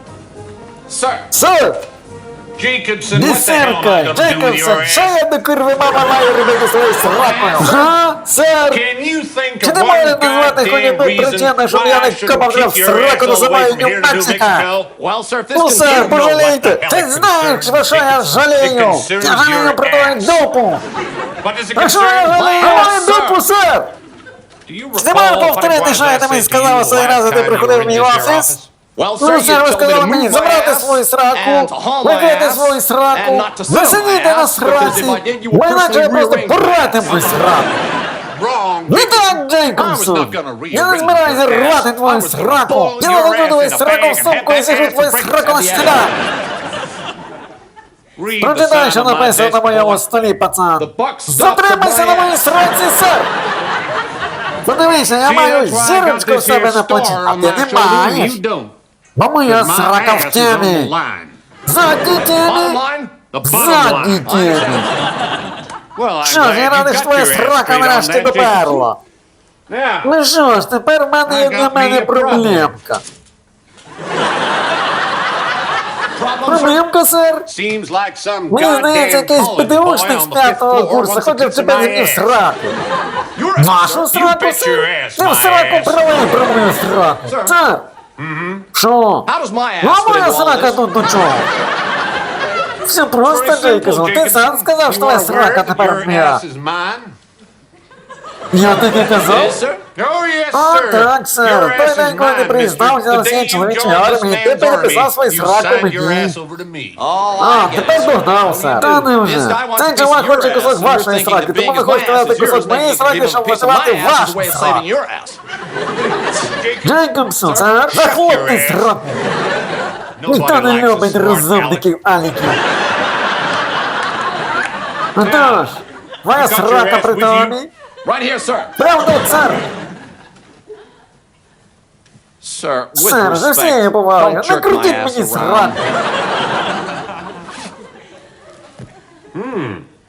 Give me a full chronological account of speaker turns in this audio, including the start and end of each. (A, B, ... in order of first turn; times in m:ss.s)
0:00.9-0:01.3 A
0:01.3-0:01.8 B
0:02.6-0:05.2 A
0:03.1-0:08.8 B
0:07.1-0:07.9 A
0:08.7-0:14.9 A
0:09.6-0:14.7 B
0:15.0-0:16.5 C
0:15.5-0:20.8 B
0:15.8-0:20.4 A
0:21.4-0:23.4 A
0:21.8-0:23.9 B
0:22.3-0:23.2 C
0:24.7-0:28.7 A
0:25.0-0:28.6 B
0:29.0-0:37.3 C
0:29.2-0:37.8 B
0:38.3-0:46.2 A
0:38.9-0:46.2 B
0:48.2-0:50.0 A
0:48.4-0:53.3 B
0:50.8-0:51.7 A
0:51.5-0:52.4 C
0:54.7-0:58.4 B
0:55.2-0:58.7 A
0:59.2-1:00.9 B
0:59.5-1:01.4 A
1:01.7-1:02.8 B
1:02.4-1:03.2 C
1:03.3-1:04.4 A
1:03.4-1:04.9 B
1:04.3-1:04.9 C
1:06.0-1:08.9 A
1:06.2-1:09.0 B
1:09.7-1:10.1 A
1:10.0-1:13.0 B
1:11.2-1:12.8 A
1:16.2-1:16.8 C
1:16.5-1:17.5 B
1:17.5-1:22.3 A
1:18.5-1:22.8 B
1:23.4-1:26.1 A
1:23.6-1:27.8 B
1:27.3-1:27.6 C
1:28.2-1:28.7 A
1:28.7-1:29.3 B
1:29.3-1:30.8 C
1:29.8-1:31.5 B
1:32.8-1:36.4 B
1:33.2-1:37.2 A
1:38.5-1:39.6 B
1:38.9-1:39.8 C
1:39.9-1:47.0 A
1:40.5-1:46.4 B
1:47.0-1:55.4 C
1:47.4-1:54.8 B
1:56.3-1:58.9 A
1:56.8-1:59.2 B
2:00.2-2:01.9 A
2:00.3-2:02.6 B
2:05.2-2:07.7 B
2:05.2-2:07.6 A
2:08.0-2:08.7 C
2:08.8-2:09.6 B
2:12.4-2:15.9 C
2:13.0-2:15.8 B
2:19.3-2:19.8 A